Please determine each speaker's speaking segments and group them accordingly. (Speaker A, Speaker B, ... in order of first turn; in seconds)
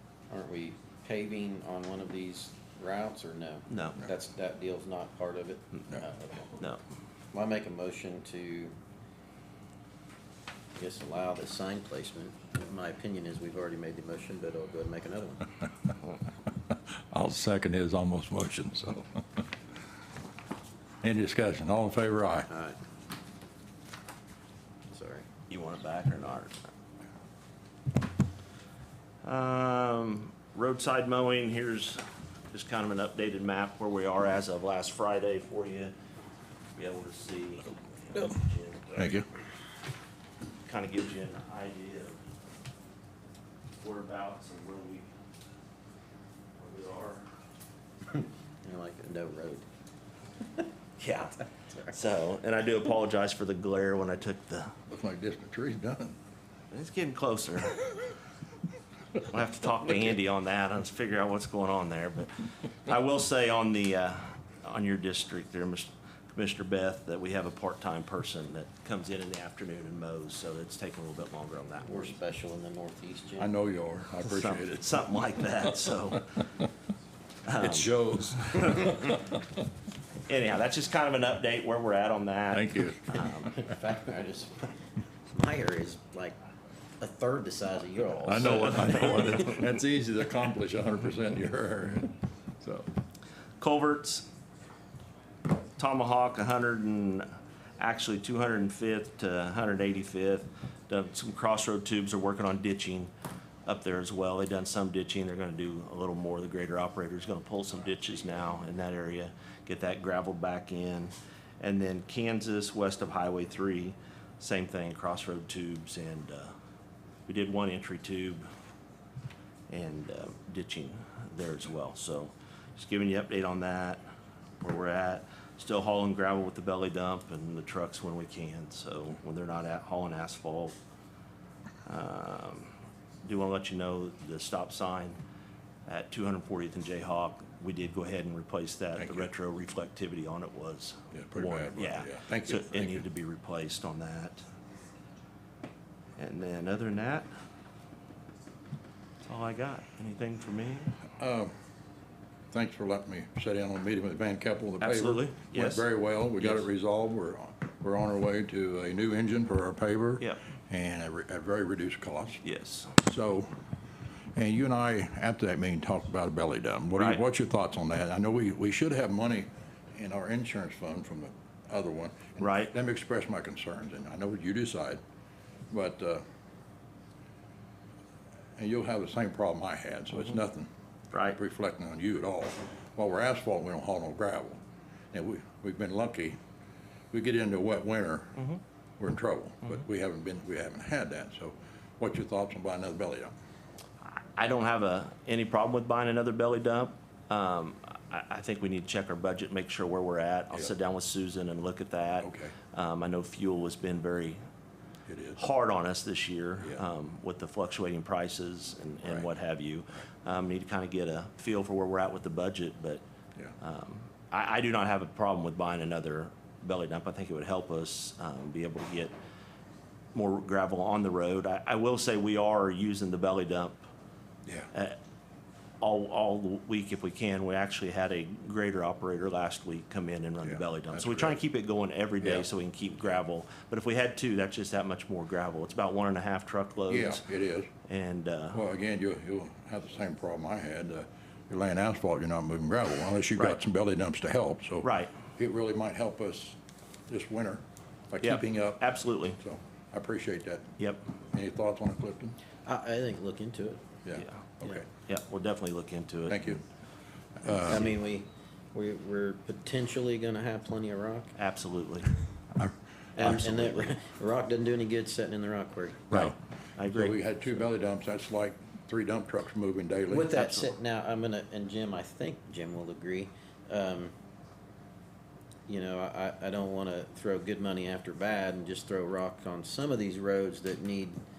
Speaker A: 0.3-6.6, 7.3-8.7, 10.8-15.5, 22.5-22.8, 24.9-25.2, 48.6-49.6, 71.8-73.5, 83.5-84.7, 85.3-86.3, 87.0-89.2, 252.6-253.8, 257.5-261.3, 263.1-266.1, 270.1-274.1, 275.7-281.2
Speaker B: 3.7-4.0, 25.5-26.6, 29.2-35.9, 36.8-39.2, 40.6-42.2, 43.8-45.1, 46.5-47.2, 51.0-54.7, 56.7-57.8, 59.2-72.1, 74.2-76.2, 77.5-77.9, 78.6-78.8, 80.3-83.5, 93.6-94.3, 95.8-103.1, 103.7-116.5, 117.3-118.5, 119.7-124.0, 124.6-130.7, 131.8-135.2, 135.8-144.4, 146.2-147.3, 149.2-150.9, 154.8-155.9, 156.4-156.6, 162.4-163.0, 172.4-172.7, 181.1-181.4, 194.3-204.4, 205.3-213.0, 213.6-219.1, 220.1-223.8, 224.7-225.0, 225.8-237.2, 237.9-238.6, 244.8-245.1, 248.2-249.4, 254.2-254.4, 255.0-256.6, 257.6-258.0, 261.4-262.1, 263.2-263.9, 266.1-267.6, 270.3-270.7
Speaker C: 17.1-19.2, 21.0-22.5, 39.0-39.2, 54.9-56.1, 73.4-75.0, 77.6-79.1, 82.5-83.0, 88.2-92.9, 139.0-139.3, 141.1-143.0, 151.2-151.5, 152.5-162.4, 163.0-163.5, 164.3-175.0, 175.7-176.2, 178.6-180.7, 181.3-184.6, 185.1-186.4, 187.1-188.4, 189.0-193.3, 202.2-202.5, 205.1-205.4, 230.4-231.3, 236.9-237.7, 238.5-246.6, 247.1-250.8, 251.3-252.3, 254.0-254.8, 256.3-256.6, 257.4-257.9, 266.1-266.4, 266.9-270.3